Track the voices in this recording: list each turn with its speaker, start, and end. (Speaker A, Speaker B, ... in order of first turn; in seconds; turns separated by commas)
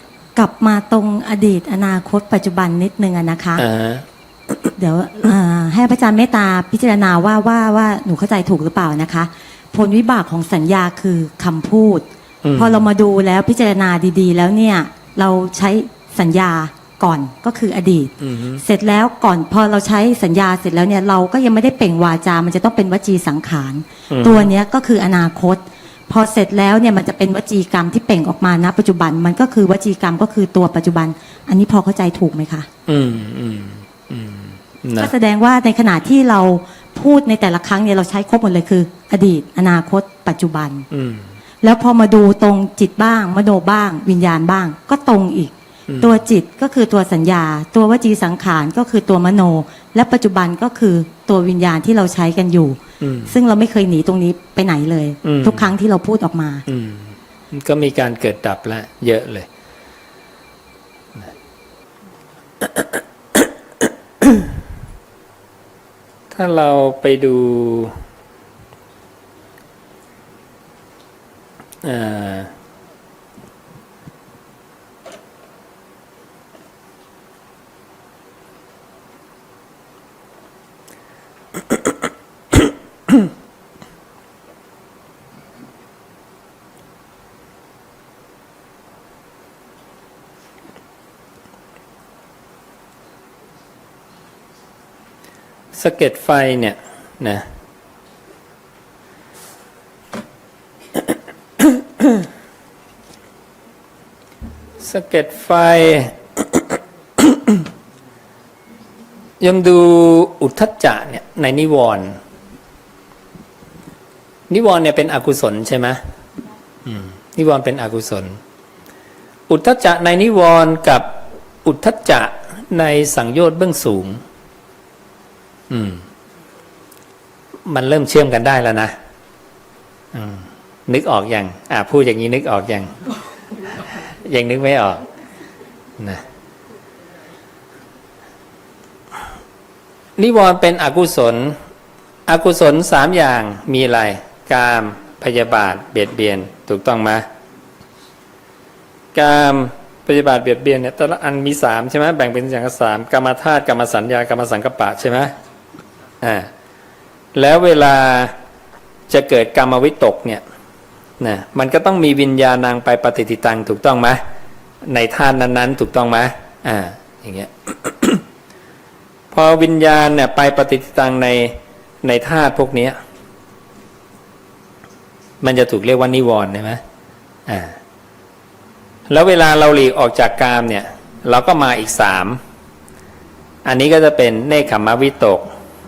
Speaker A: 0.3-3.6, Speaker B: 3.6-4.0, Speaker A: 4.8-32.7, Speaker B: 12.4-12.8, Speaker B: 18.2-18.6, Speaker B: 24.1-24.5, Speaker B: 32.9-35.1, Speaker A: 35.0-40.9, Speaker B: 40.9-41.3, Speaker A: 41.6-56.6, Speaker B: 45.9-46.2, Speaker B: 53.0-53.3, Speaker B: 55.2-55.7, Speaker B: 56.7-59.5, Speaker B: 66.3-68.0, Speaker B: 71.8-72.5, Speaker B: 95.7-97.4, Speaker B: 101.6-102.1, Speaker B: 104.8-106.6, Speaker B: 107.2-107.6, Speaker B: 109.4-112.2, Speaker B: 114.5-116.0, Speaker B: 116.8-118.4, Speaker B: 119.5-121.0, Speaker B: 121.6-124.2, Speaker B: 125.7-126.0, Speaker B: 127.7-128.9, Speaker B: 130.1-132.9, Speaker B: 134.2-135.1, Speaker B: 140.2-141.6, Speaker B: 142.3-147.2, Speaker B: 149.1-155.3, Speaker B: 156.2-156.5, Speaker B: 157.3-158.3, Speaker B: 159.1-160.4, Speaker B: 161.2-164.2, Speaker B: 164.8-168.2, Speaker B: 169.3-172.9, Speaker B: 175.4-176.8, Speaker B: 177.5-177.8, Speaker B: 179.1-182.4, Speaker B: 183.6-185.4